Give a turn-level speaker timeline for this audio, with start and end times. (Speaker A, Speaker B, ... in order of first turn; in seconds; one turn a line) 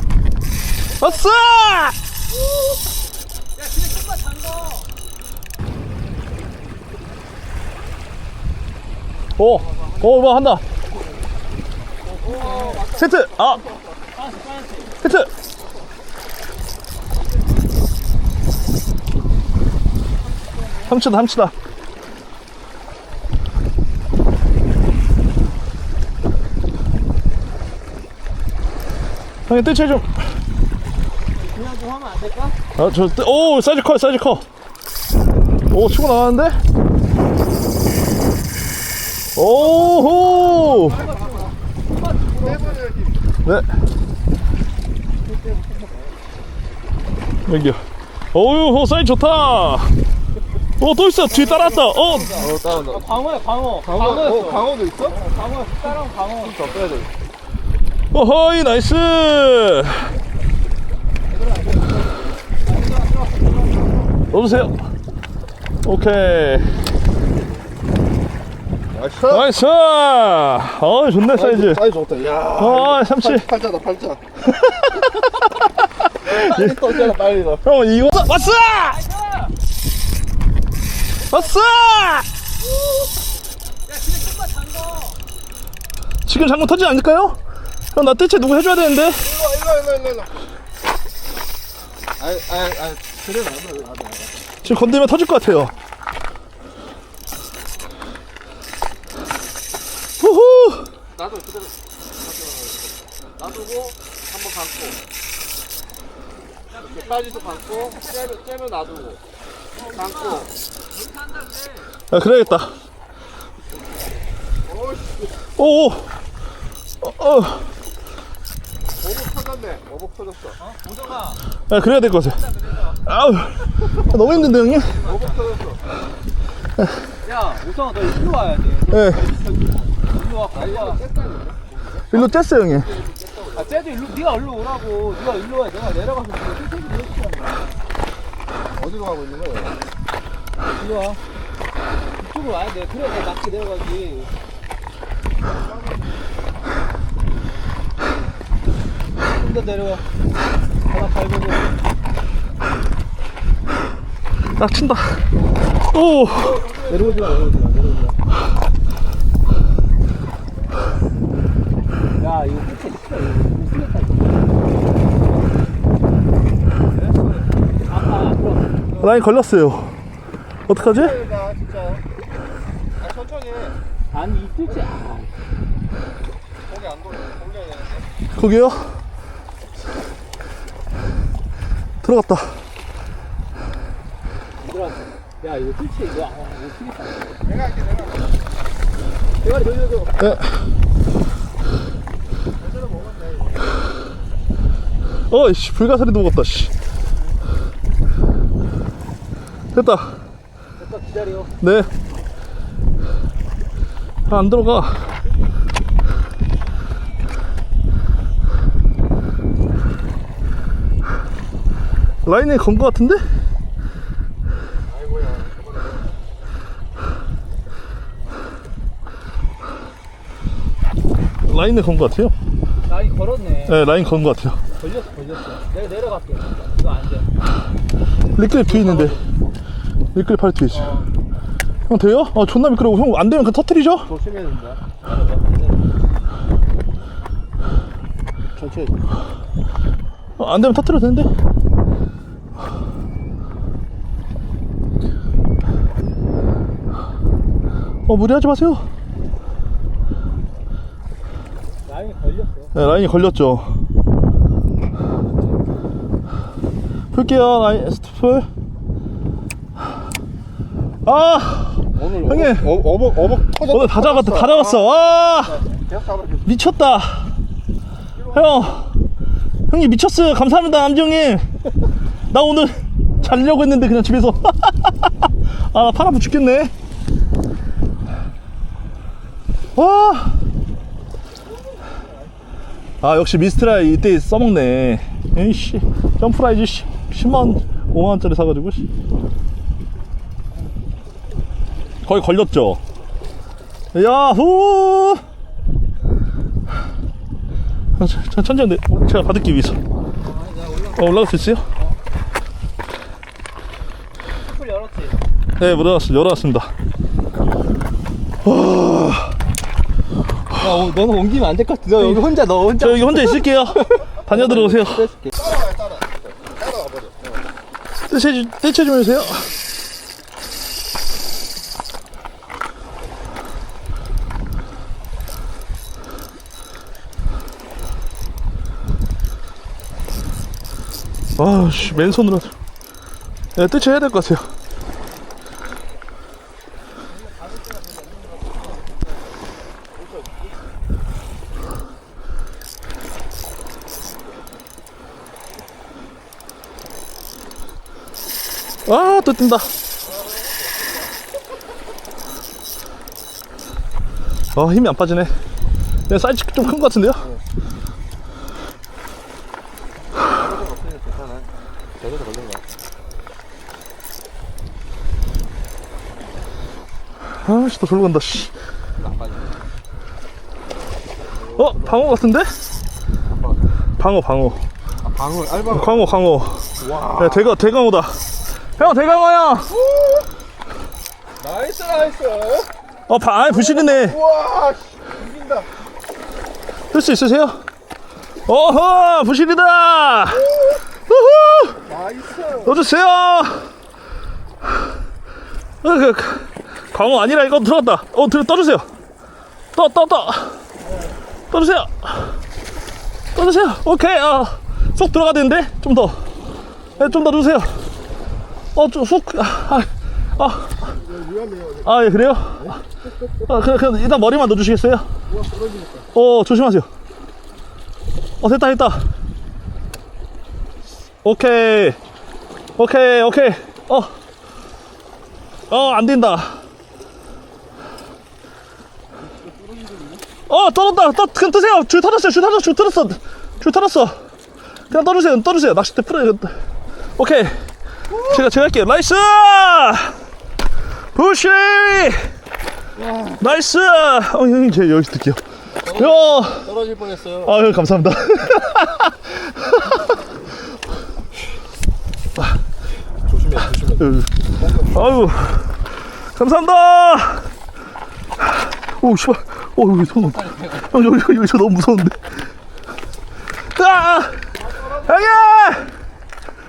Speaker A: 0.9-2.0
Speaker B: 3.6-4.9
Speaker A: 9.4-10.6
Speaker B: 12.1-12.9
Speaker C: 12.1-13.9
Speaker A: 12.9-13.6
Speaker B: 14.1-15.0
Speaker A: 15.0-15.3
Speaker B: 20.2-21.0
Speaker A: 20.9-21.5
Speaker A: 29.5-30.1
Speaker B: 31.4-32.6
Speaker A: 32.8-34.4
Speaker A: 35.7-36.6
Speaker A: 39.4-41.0
Speaker B: 39.5-40.0
Speaker B: 40.6-42.9
Speaker C: 40.9-41.5
Speaker C: 42.4-43.2
Speaker B: 45.5-45.8
Speaker A: 47.5-50.0
Speaker A: 50.8-52.5
Speaker B: 51.3-56.9
Speaker C: 52.3-53.0
Speaker C: 53.9-55.2
Speaker C: 56.5-57.1
Speaker A: 58.1-60.1
Speaker B: 61.3-64.2
Speaker A: 64.3-64.8
Speaker A: 65.8-66.8
Speaker C: 68.9-69.4
Speaker A: 69.2-71.9
Speaker C: 71.5-74.2
Speaker A: 72.5-73.6
Speaker A: 74.4-79.0
Speaker C: 76.2-77.6
Speaker B: 78.8-79.5
Speaker A: 81.3-82.3
Speaker B: 83.9-85.2
Speaker A: 86.2-87.4
Speaker A: 87.9-89.3
Speaker C: 89.2-90.4
Speaker C: 92.2-94.3
Speaker A: 94.6-95.7
Speaker A: 100.2-100.9
Speaker C: 101.2-105.0
Speaker B: 106.7-108.3
Speaker C: 106.8-109.2
Speaker B: 109.7-111.9
Speaker C: 109.9-110.5
Speaker A: 112.1-112.7
Speaker C: 114.7-115.3
Speaker A: 115.5-116.1
Speaker A: 117.0-117.7
Speaker C: 119.0-120.5
Speaker B: 120.6-121.4
Speaker A: 121.7-122.4
Speaker B: 122.3-123.0
Speaker A: 123.0-125.0
Speaker B: 124.7-125.4
Speaker C: 125.0-125.8
Speaker B: 127.2-131.0
Speaker A: 128.9-129.2
Speaker C: 130.6-132.2
Speaker A: 132.1-132.9
Speaker C: 132.8-133.8
Speaker B: 133.5-137.8
Speaker C: 138.8-139.7
Speaker B: 140.7-141.2
Speaker B: 142.2-144.3
Speaker B: 149.3-150.0
Speaker B: 150.8-151.8
Speaker A: 154.6-155.3
Speaker A: 155.9-156.6
Speaker B: 156.3-157.4
Speaker C: 156.5-158.1
Speaker B: 162.2-164.5
Speaker B: 167.9-168.9
Speaker A: 169.0-169.9
Speaker A: 170.7-171.2
Speaker C: 170.7-172.0
Speaker C: 173.0-173.7
Speaker B: 174.1-175.3
Speaker C: 176.7-178.1
Speaker A: 178.3-179.0
Speaker A: 182.0-182.6
Speaker B: 184.6-187.4
Speaker C: 187.5-188.2
Speaker B: 189.4-190.2
Speaker A: 190.2-190.5
Speaker C: 192.8-193.5
Speaker A: 195.3-196.7
Speaker A: 199.7-200.2
Speaker B: 200.8-201.5
Speaker A: 201.6-201.9
Speaker A: 204.3-205.1
Speaker A: 212.2-213.2
Speaker C: 215.0-215.9
Speaker A: 221.4-222.3
Speaker B: 222.8-223.8
Speaker A: 223.7-224.6
Speaker B: 224.8-227.3
Speaker A: 228.3-229.2
Speaker B: 228.7-229.2
Speaker A: 230.1-230.9
Speaker B: 230.7-231.1
Speaker A: 231.9-234.1
Speaker C: 234.1-234.8
Speaker B: 235.0-235.9
Speaker C: 238.6-238.9
Speaker A: 240.4-241.3
Speaker A: 248.1-248.8
Speaker B: 251.9-252.7
Speaker A: 252.7-253.8
Speaker A: 257.1-258.5
Speaker A: 261.0-262.8
Speaker C: 262.0-264.6
Speaker A: 263.6-265.6
Speaker C: 265.9-266.4
Speaker A: 266.4-267.3
Speaker A: 268.3-268.9
Speaker A: 269.7-271.5
Speaker A: 272.3-276.7
Speaker A: 279.7-280.4
Speaker A: 283.0-288.9
Speaker A: 292.0-292.8
Speaker A: 293.9-295.2
Speaker A: 298.0-299.8
Speaker B: 300.2-301.1
Speaker A: 300.9-301.6
Speaker B: 304.4-305.2
Speaker A: 305.6-306.7
Speaker A: 308.4-309.3
Speaker B: 310.6-314.2
Speaker A: 312.8-315.1
Speaker C: 315.3-317.3
Speaker A: 318.1-319.5
Speaker A: 331.4-332.5
Speaker A: 333.5-334.5
Speaker B: 337.1-339.1
Speaker A: 348.9-349.7
Speaker A: 354.5-355.3
Speaker A: 356.1-357.3
Speaker C: 360.5-361.5
Speaker C: 362.0-362.6
Speaker A: 367.3-368.5
Speaker C: 369.0-369.4
Speaker C: 371.5-371.9
Speaker A: 371.5-372.5
Speaker A: 374.0-374.6
Speaker C: 375.0-375.9
Speaker A: 375.6-378.2
Speaker C: 376.8-377.5
Speaker A: 378.8-379.7
Speaker C: 379.9-380.2
Speaker C: 381.4-382.7
Speaker A: 383.1-384.2
Speaker C: 383.6-385.7
Speaker A: 386.9-387.6
Speaker A: 388.4-390.5
Speaker A: 391.1-391.8
Speaker C: 391.8-392.7
Speaker A: 392.6-393.7
Speaker A: 395.8-398.9
Speaker A: 399.7-400.6
Speaker A: 401.5-402.3
Speaker A: 403.3-406.2
Speaker A: 407.0-407.8
Speaker A: 408.7-410.9
Speaker C: 411.1-411.8
Speaker A: 411.8-412.8
Speaker A: 413.4-415.1
Speaker C: 415.3-416.1
Speaker A: 416.1-416.9
Speaker A: 418.4-419.1
Speaker A: 421.2-422.0
Speaker A: 422.8-424.1
Speaker A: 425.7-426.6
Speaker A: 430.5-434.2
Speaker A: 434.9-436.5
Speaker A: 437.1-437.6
Speaker A: 438.1-440.2
Speaker A: 441.1-442.3
Speaker C: 443.0-443.4
Speaker A: 443.4-446.7
Speaker C: 445.8-447.5
Speaker A: 447.4-450.0
Speaker C: 453.3-454.1
Speaker A: 454.0-457.5
Speaker A: 458.6-462.3
Speaker A: 463.6-465.9